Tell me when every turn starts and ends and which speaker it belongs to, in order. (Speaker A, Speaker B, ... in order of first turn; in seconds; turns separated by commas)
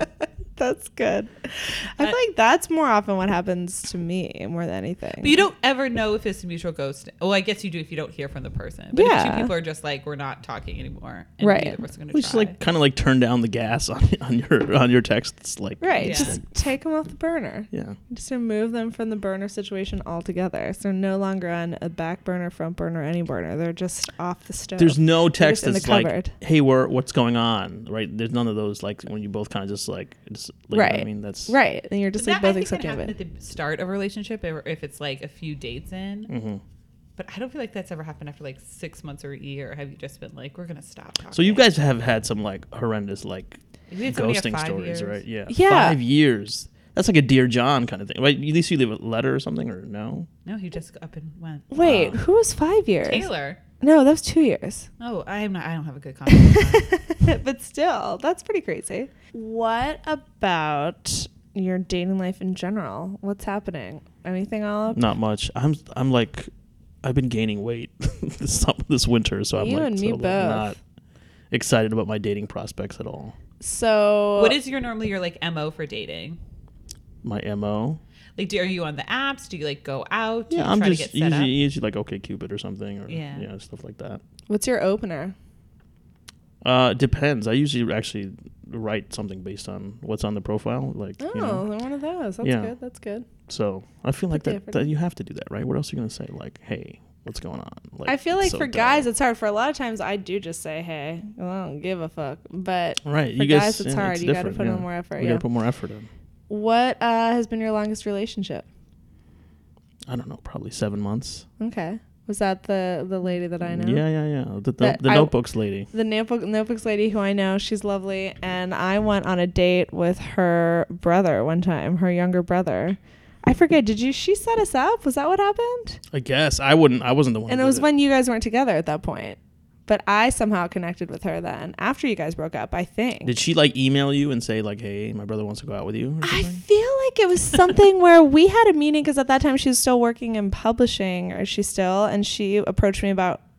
Speaker A: 0.6-5.4, Speaker B: 5.2-12.6, Speaker A: 8.9-9.5, Speaker A: 11.4-11.8, Speaker C: 12.1-16.4, Speaker A: 15.8-26.3, Speaker B: 16.0-16.4, Speaker C: 17.7-18.0, Speaker C: 24.8-31.6, Speaker A: 30.7-33.1, Speaker B: 32.1-36.3, Speaker C: 36.3-36.6, Speaker B: 37.2-41.6, Speaker C: 41.3-50.3, Speaker B: 43.9-45.2, Speaker A: 45.5-46.0, Speaker B: 50.4-51.7, Speaker A: 51.7-53.3, Speaker C: 51.8-52.2, Speaker B: 53.0-53.6, Speaker A: 53.8-54.9, Speaker B: 55.0-56.9, Speaker A: 56.3-65.0, Speaker C: 64.9-66.5, Speaker C: 67.0-70.8, Speaker A: 69.6-70.7, Speaker C: 71.5-73.3, Speaker A: 73.6-74.6, Speaker B: 74.3-76.4, Speaker C: 77.2-78.0, Speaker B: 78.4-81.5, Speaker C: 80.5-84.2, Speaker B: 83.1-83.5, Speaker A: 84.5-85.3, Speaker C: 86.6-91.6, Speaker A: 91.2-93.3, Speaker C: 92.4-92.7, Speaker C: 93.5-99.1, Speaker A: 94.3-94.8, Speaker A: 98.0-105.4, Speaker C: 103.0-106.1, Speaker A: 106.5-108.6, Speaker C: 110.1-111.5, Speaker A: 111.6-114.0, Speaker C: 113.6-115.9, Speaker A: 114.8-115.3, Speaker A: 115.9-126.0, Speaker C: 126.1-127.8, Speaker A: 127.5-133.3, Speaker C: 133.2-136.6, Speaker A: 136.2-143.4